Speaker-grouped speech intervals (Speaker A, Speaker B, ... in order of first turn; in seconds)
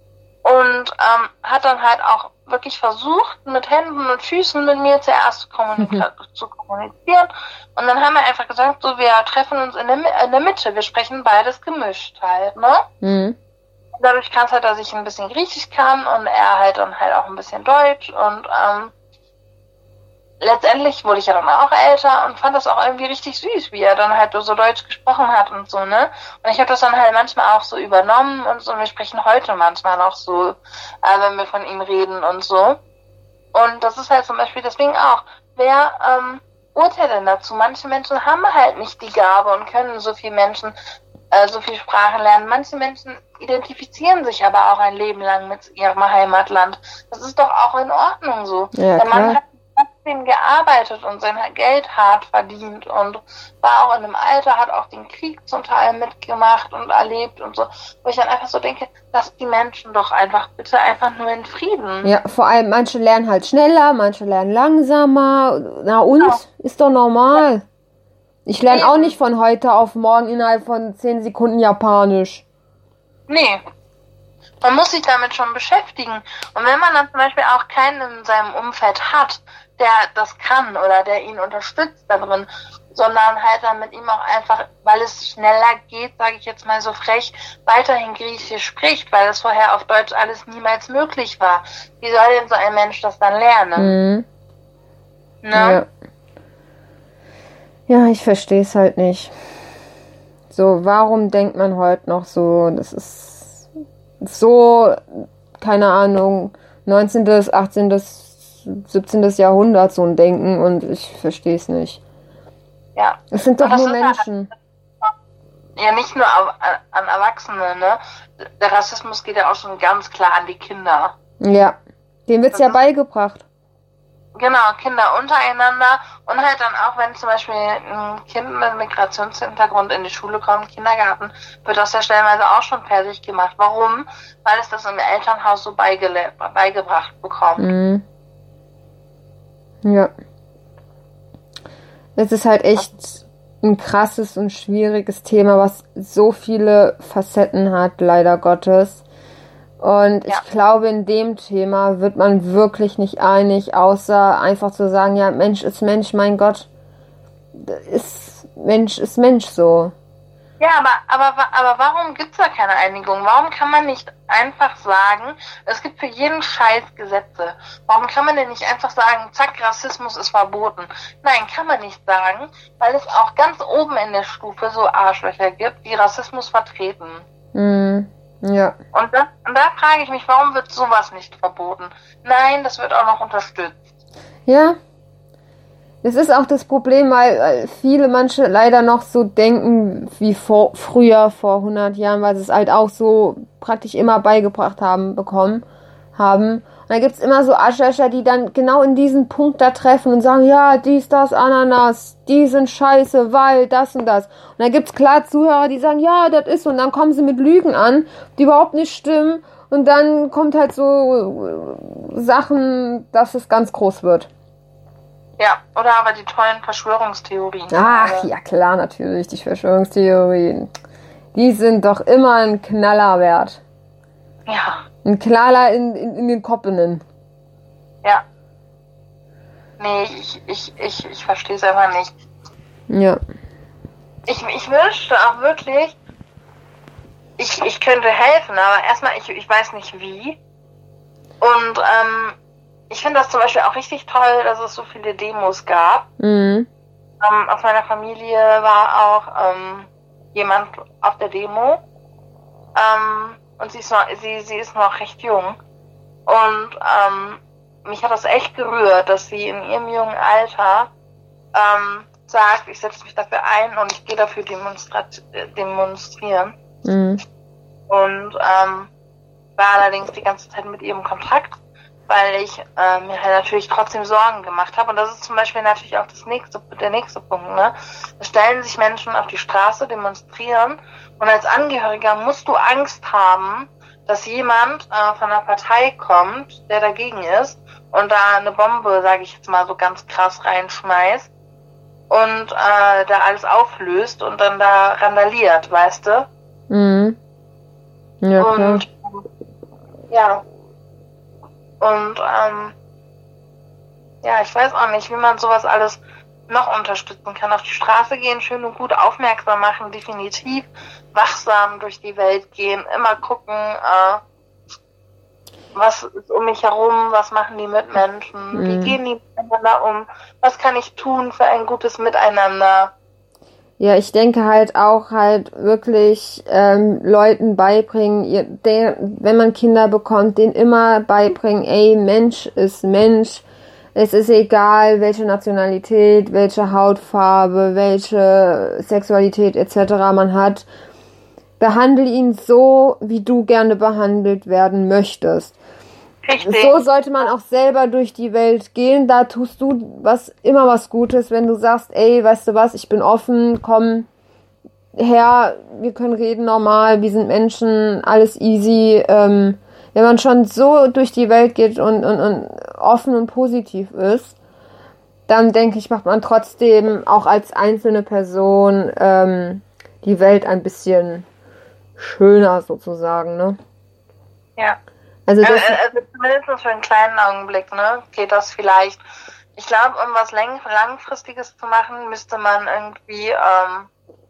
Speaker A: 0.4-12.9, 13.9-18.9, 20.4-32.8, 33.5-40.8, 41.3-62.1, 68.7-69.1, 73.3-73.6, 74.6-94.0, 95.4-95.8, 113.0-114.2, 115.8-121.1, 122.5-122.8, 124.3-137.7, 160.6-177.2, 178.9-183.8, 215.4-218.3, 224.5-224.8, 229.8-232.1, 234.3-236.0, 237.4-240.4, 241.4-242.3, 242.9-246.1, 247.2-251.8, 252.8-255.6, 256.3-260.9, 261.5-266.6, 267.9-268.9, 269.6-271.6, 272.1-291.3, 292.1-296.3, 298.4-299.2, 300.1-300.4, 301.8-302.8, 304.2-314.2, 315.8-322.9, 346.2-346.8, 375.4-379.0, 379.6-383.9
Speaker B: 5.8-6.0, 13.0-13.4, 48.7-49.4, 62.0-67.6, 68.5-72.4, 93.8-94.2, 95.5-95.9, 97.9-99.3, 100.5-103.7, 104.2-112.0, 113.3-114.5, 121.4-123.4, 137.6-138.0, 139.8-140.1, 142.2-149.0, 149.8-156.7, 157.5-159.9, 177.5-178.8, 184.5-184.8, 186.0-195.6, 196.2-214.3, 217.7-220.7, 221.3-223.6, 225.0-227.0, 232.9-233.2, 246.2-246.7, 266.8-267.2, 296.7-297.2, 298.2-298.8, 318.5-319.0, 323.8-333.4, 333.9-340.6, 341.6-345.6, 346.4-354.1, 355.0-364.4, 365.3-371.2, 372.0-373.6, 375.3-375.8